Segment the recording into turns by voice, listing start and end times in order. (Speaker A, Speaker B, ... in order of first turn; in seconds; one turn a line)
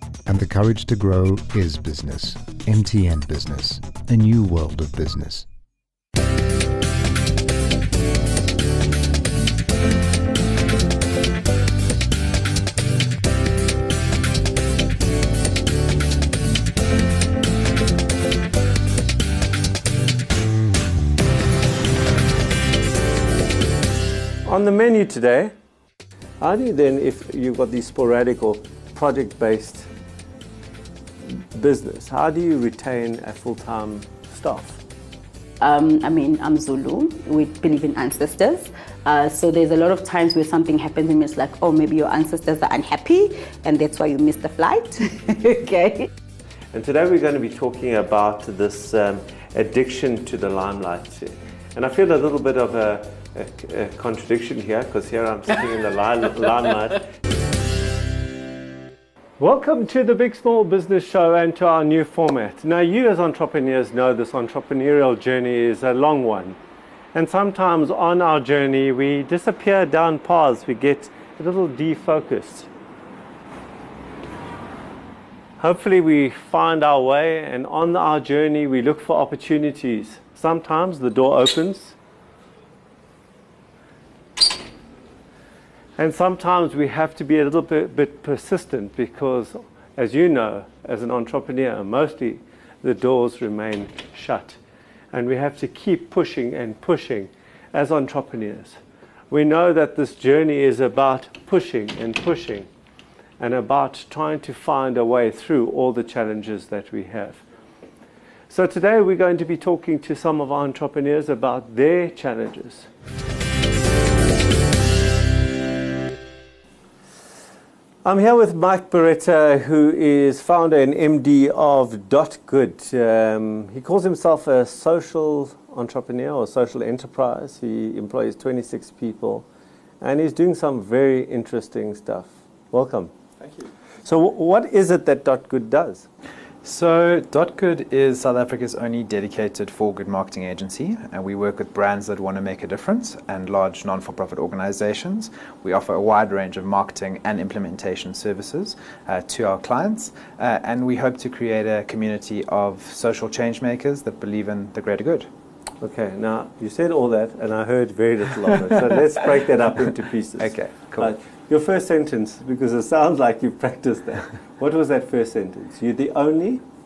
Speaker A: 0.3-5.5
Speaker B: 24.4-25.5
Speaker B: 26.4-29.9
Speaker B: 31.2-34.8
Speaker C: 35.6-46.1
Speaker B: 46.7-57.1
Speaker B: 59.4-66.5
Speaker B: 67.1-72.7
Speaker B: 75.6-81.9
Speaker B: 86.0-94.6
Speaker B: 95.1-98.8
Speaker B: 99.3-102.7
Speaker B: 103.4-107.4
Speaker B: 108.5-112.9
Speaker B: 118.0-129.4
Speaker B: 130.0-133.1
Speaker B: 134.0-136.1
Speaker D: 136.6-155.3
Speaker B: 155.8-166.6
Speaker D: 160.4-161.1